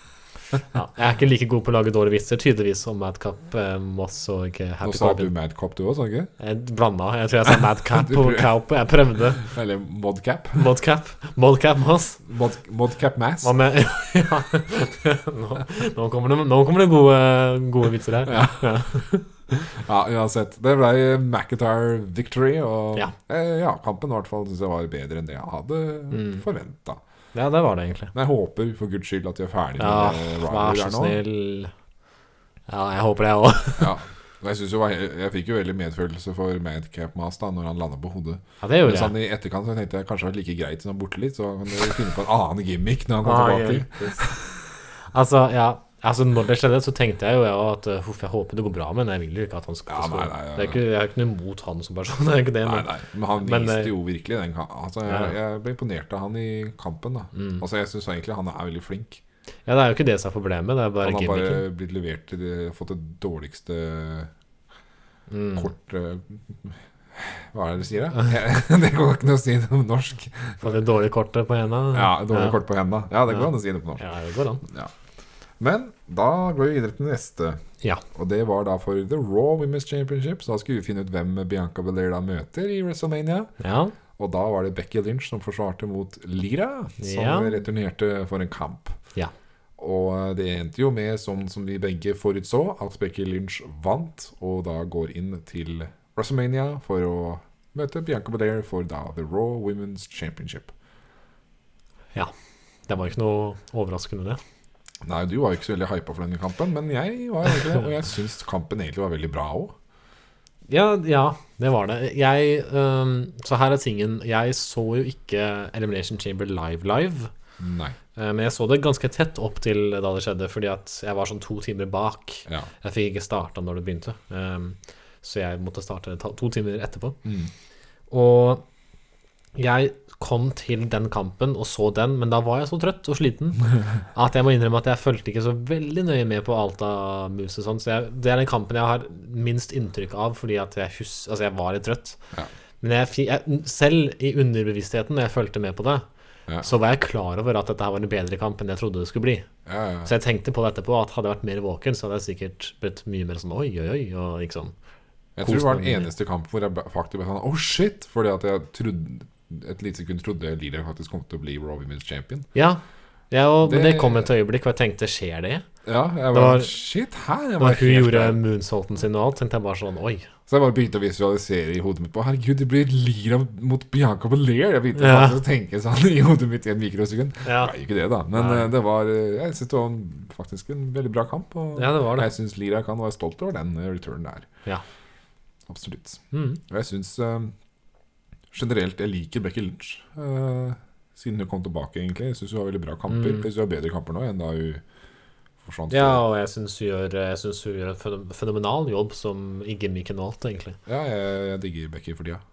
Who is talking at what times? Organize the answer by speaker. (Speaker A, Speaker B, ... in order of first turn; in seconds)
Speaker A: 0.6-5.3, 6.4-9.4, 10.5-12.2, 13.4-19.2, 26.1-26.4, 27.3-28.1, 29.8-31.7, 32.7-33.9, 38.6-39.1, 43.2-44.3, 44.9-53.9, 55.0-55.3, 57.3-57.6, 59.7-61.6, 65.3-65.7, 70.6-72.6, 73.3-74.6, 83.6-83.9, 87.0-87.6, 102.9-104.4, 110.7-117.3, 118.2-127.2, 128.1-128.6, 129.6-142.2, 142.8-146.1, 146.6-149.5, 150.0-154.7, 155.4-156.1, 162.5-165.6, 166.3-166.7, 167.6-170.3, 174.9-175.4, 177.4-177.7, 178.3-178.7, 181.8-182.3, 186.3-186.6, 193.1-193.5, 195.9-200.8
Speaker B: 4.8-6.3, 7.9-8.5, 9.3-10.7, 12.2-13.5, 18.2-19.0, 19.5-27.0, 28.1-31.2, 33.8-44.4, 49.9-50.8, 52.6-59.2, 61.0-64.3, 65.5-70.8, 71.9-74.0, 74.6-74.9, 75.6-77.6, 78.1-83.5, 84.2-89.0, 89.8-100.7, 105.0-109.7, 117.6-118.0, 127.2-127.5, 149.7-150.1, 155.4-162.5, 163.6-164.3, 165.8-168.4, 170.5-184.5, 185.7-187.5, 188.5-194.8, 195.6-196.2, 200.8-202.4